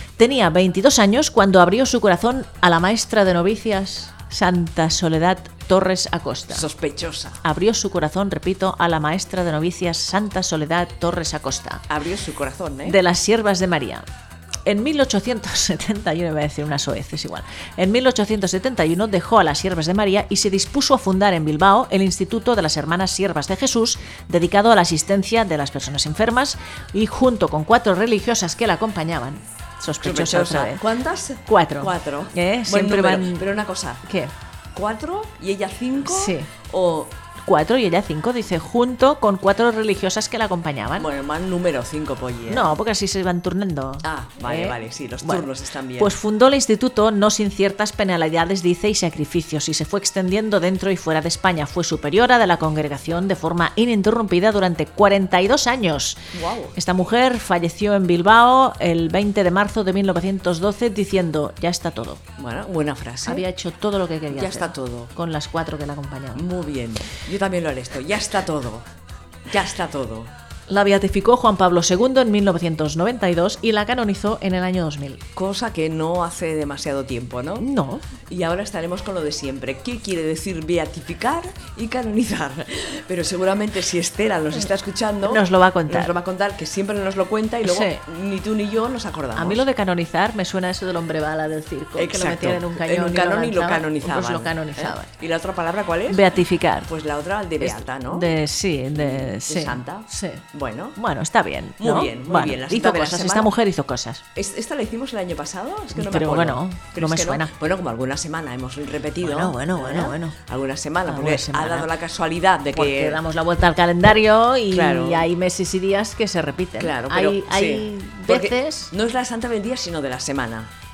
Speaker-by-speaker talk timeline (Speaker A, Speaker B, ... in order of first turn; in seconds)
Speaker A: 0.2-6.7, 7.4-11.8, 12.8-14.0, 14.7-30.8, 31.5-33.5, 34.0-34.3, 36.0-36.5, 37.4-41.1, 42.5-45.5, 46.0-56.2, 56.8-62.2, 63.2-66.4, 70.7-75.2, 77.6-78.0, 85.2-86.1, 87.6-88.0, 89.3-95.1, 96.1-96.9, 97.6-100.4, 101.0-104.2, 105.9-107.5, 109.2-110.4, 111.1-111.9, 112.7-118.9
Speaker B: 6.5-7.4, 11.9-13.0, 30.0-34.0, 34.7-37.1, 41.0-42.7, 44.0-46.1, 56.3-56.8, 62.4-63.4, 64.3-65.1, 66.3-68.8, 69.5-70.3, 75.3-77.7, 78.3-89.6, 92.0-96.2, 96.8-98.4, 98.9-101.0, 101.8-103.5, 104.3-113.2, 114.7-115.3, 116.8-120.7